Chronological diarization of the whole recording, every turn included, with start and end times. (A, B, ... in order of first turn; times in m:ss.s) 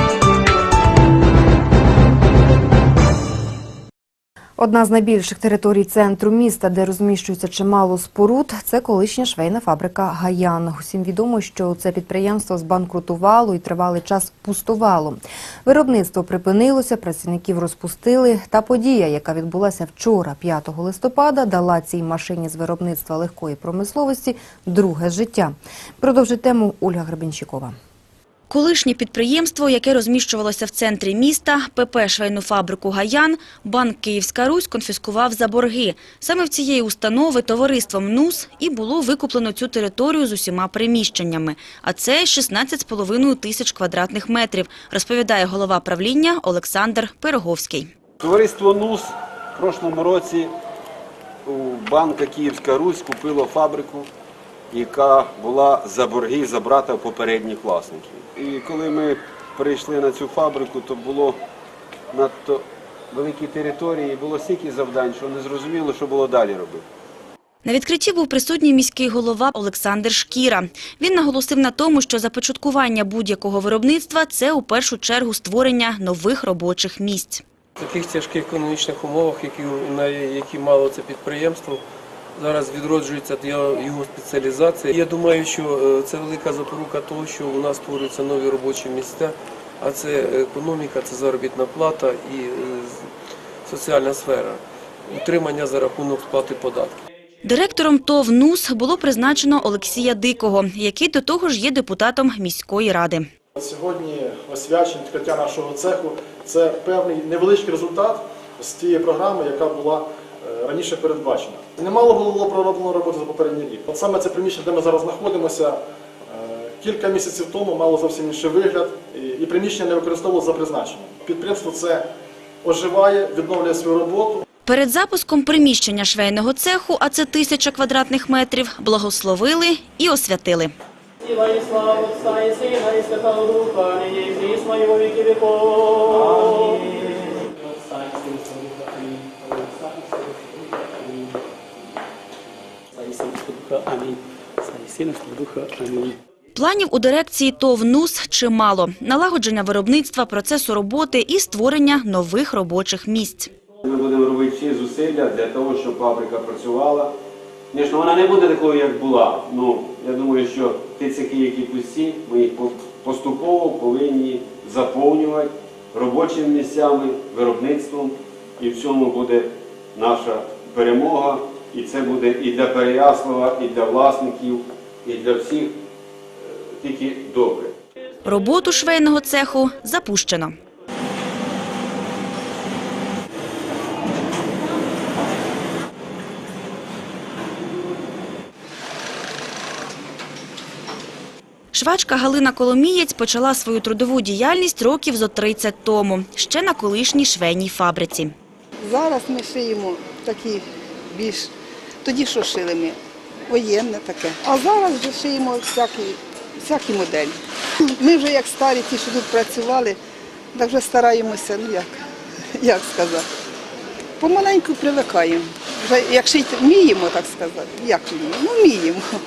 0:04.6-0:27.7 A
0:28.5-0:47.9 B
0:48.2-0:50.5 C
0:51.4-0:54.1 C
0:54.7-1:01.4 C
1:02.1-1:06.8 C
1:07.6-1:17.4 B
1:17.8-1:21.8 D
1:22.3-1:33.1 D
1:33.6-1:37.0 D
1:37.4-1:43.2 B
1:43.6-1:55.8 E
1:56.3-2:02.0 E
2:02.6-2:04.4 E
2:04.6-2:10.7 B
2:11.3-2:21.4 F
2:22.9-2:26.2 F
2:26.5-2:33.5 B
2:33.8-2:37.1 C
2:37.7-2:55.8 C
2:56.4-2:57.7 C
2:58.2-3:00.6 B
3:11.7-3:18.3 B
3:18.9-3:20.6 G
3:22.1-3:22.9 G
3:23.5-3:26.1 G
3:26.7-3:27.3 G
3:28.0-3:29.9 G
3:30.6-3:31.8 G
3:32.7-3:33.1 G
3:34.4-3:35.3 G
3:36.1-3:38.0 G
3:38.7-3:39.0 G